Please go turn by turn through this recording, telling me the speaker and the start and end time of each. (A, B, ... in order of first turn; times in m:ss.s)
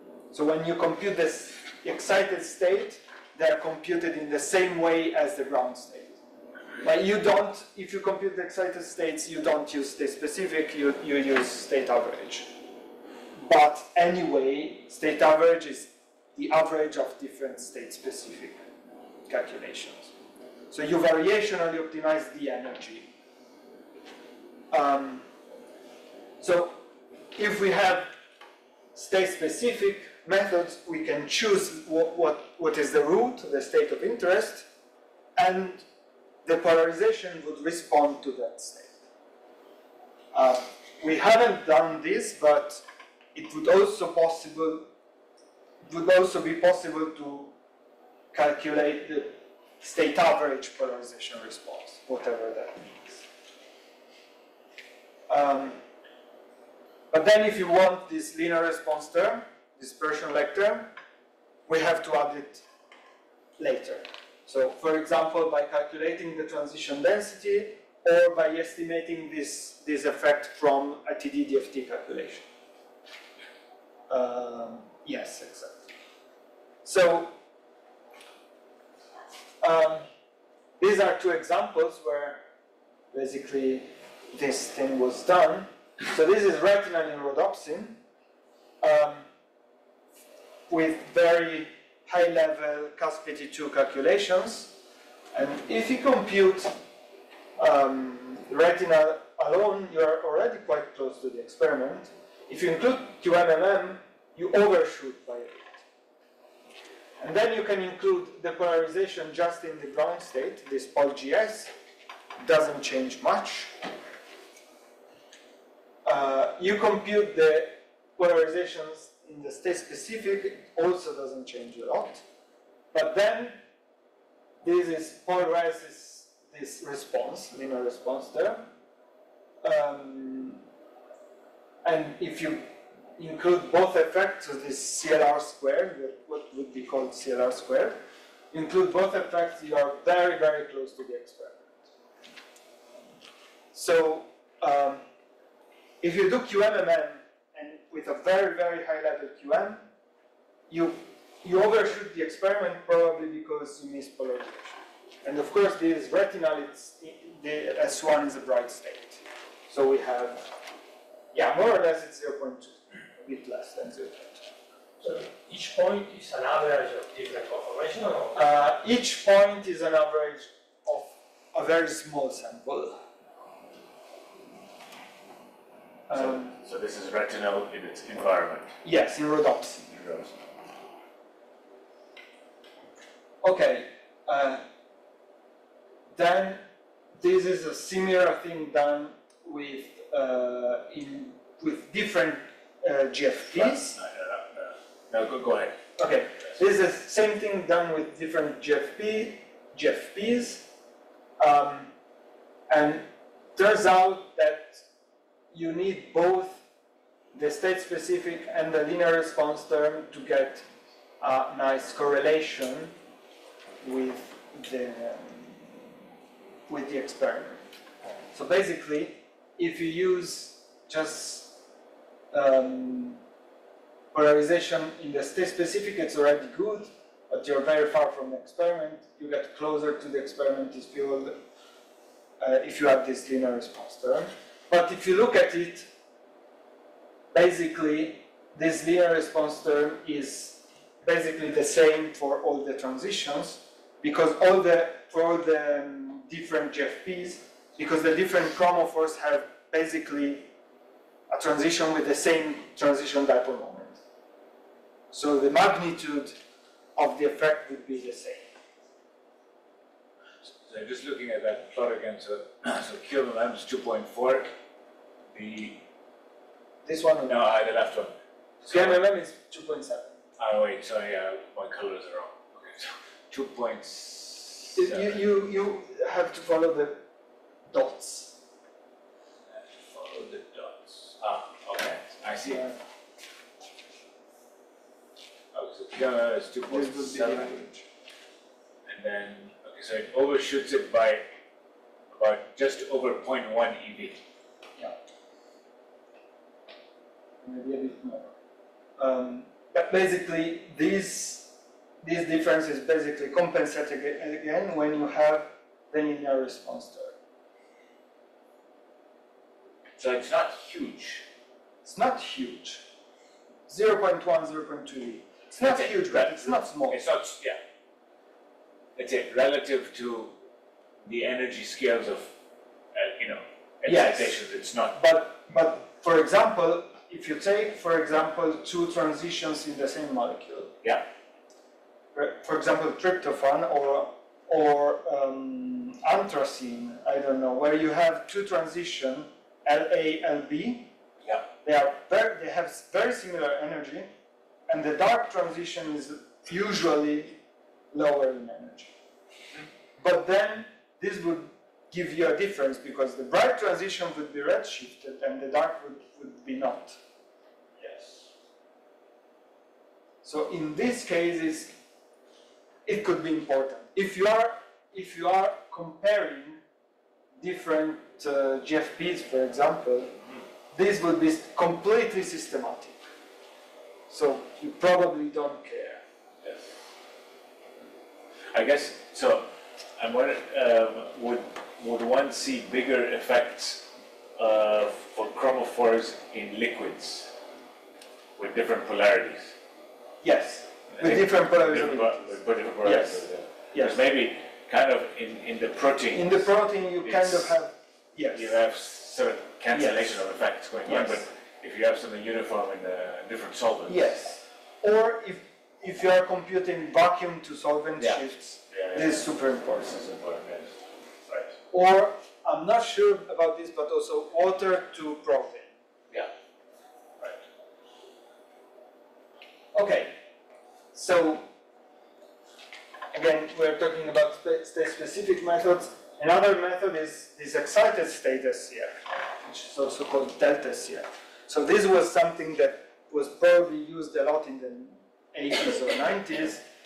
0:00.3-0:06.2 A
0:06.8-0:12.5 A
0:13.4-0:18.6 A
0:19.3-0:20.1 A
0:20.7-0:23.1 A
0:24.7-0:25.2 A
0:26.4-0:26.8 A
0:27.3-0:28.1 A
0:28.9-0:34.6 A
0:35.4-0:35.8 A
0:36.4-0:39.0 A
0:40.3-0:42.8 A
0:43.3-0:44.9 A
0:45.8-0:47.5 A
0:48.3-0:53.2 A
0:55.3-0:55.8 A
0:57.1-1:00.9 A
1:01.7-1:02.6 A
1:03.6-1:12.4 A
1:14.1-1:15.9 A
1:16.8-1:17.3 A
1:19.6-1:20.1 A
1:20.8-1:22.4 A
1:23.1-1:28.0 A
1:28.8-1:29.2 A
1:30.7-1:34.8 A
1:35.3-1:36.8 A
1:37.6-1:45.8 A
1:47.2-1:51.7 A
1:52.4-1:53.7 A
1:56.0-2:02.2 A
2:02.9-2:03.6 A
2:04.6-2:08.6 A
2:09.6-2:10.6 A
2:11.8-2:18.0 A
2:18.5-2:21.9 A
2:23.7-2:25.0 A
2:26.0-2:29.9 A
2:30.7-2:40.5 A
2:41.3-2:44.4 A
2:45.0-2:48.4 B
2:48.3-2:53.0 A
2:56.1-2:56.5 A
2:56.1-2:58.7 C
2:58.8-2:59.8 A
2:59.9-3:00.3 C
3:03.4-3:04.6 A
3:06.1-3:06.6 A
3:07.2-3:14.0 A
3:13.5-3:15.8 C
3:16.0-3:20.7 A
3:21.4-3:21.9 A
3:22.7-3:24.8 A
3:25.5-3:26.6 A
3:27.3-3:30.6 A
3:31.2-3:32.9 A
3:33.8-3:35.6 A
3:36.7-3:37.6 A
3:38.3-3:41.5 A
3:42.3-3:43.2 A
3:44.1-3:51.4 A
3:52.4-3:55.9 A
3:57.3-4:10.5 A
4:11.3-4:14.0 A
4:15.1-4:16.3 A
4:17.0-4:18.5 A
4:20.6-4:24.5 C
4:25.3-4:25.8 C
4:26.8-4:27.4 A
4:27.3-4:28.1 C
4:28.6-4:29.0 C
4:28.7-4:30.2 A
4:30.4-4:35.2 C
4:34.7-4:37.0 A
4:37.7-4:38.3 A
4:39.9-4:42.6 C
4:42.4-4:42.7 A
4:45.5-4:47.6 C
4:46.7-4:47.8 A
4:48.8-4:51.2 C
4:52.1-4:54.2 C
4:57.4-4:58.3 A
4:59.0-5:07.1 A
5:10.0-5:11.2 C
5:11.8-5:12.8 A
5:13.7-5:17.0 A
5:15.6-5:17.6 C
5:19.0-5:20.4 C
5:21.0-5:22.3 C
5:22.9-5:25.0 C
5:23.8-5:24.4 A
5:24.9-5:30.8 A
5:32.1-5:40.9 A
5:41.6-5:44.1 A
5:44.7-5:47.4 A
5:47.9-5:48.9 A
5:50.0-5:57.0 A
5:57.8-5:58.1 C
6:00.2-6:01.8 A
6:02.8-6:06.6 A
6:07.4-6:10.2 A
6:10.7-6:13.0 A
6:14.1-6:16.0 A
6:18.5-6:27.3 C
6:28.4-6:29.5 C
6:30.2-6:34.0 A
6:30.9-6:36.5 C
6:36.1-6:38.6 A
6:37.0-6:37.5 C
6:38.3-6:44.1 C
6:39.7-6:40.2 A
6:40.8-6:41.2 A
6:43.9-6:50.0 A
6:48.0-6:49.2 C
6:49.8-6:50.8 C
6:51.3-6:55.7 A
6:59.7-7:00.1 A
7:00.9-7:01.4 A
7:03.1-7:16.6 A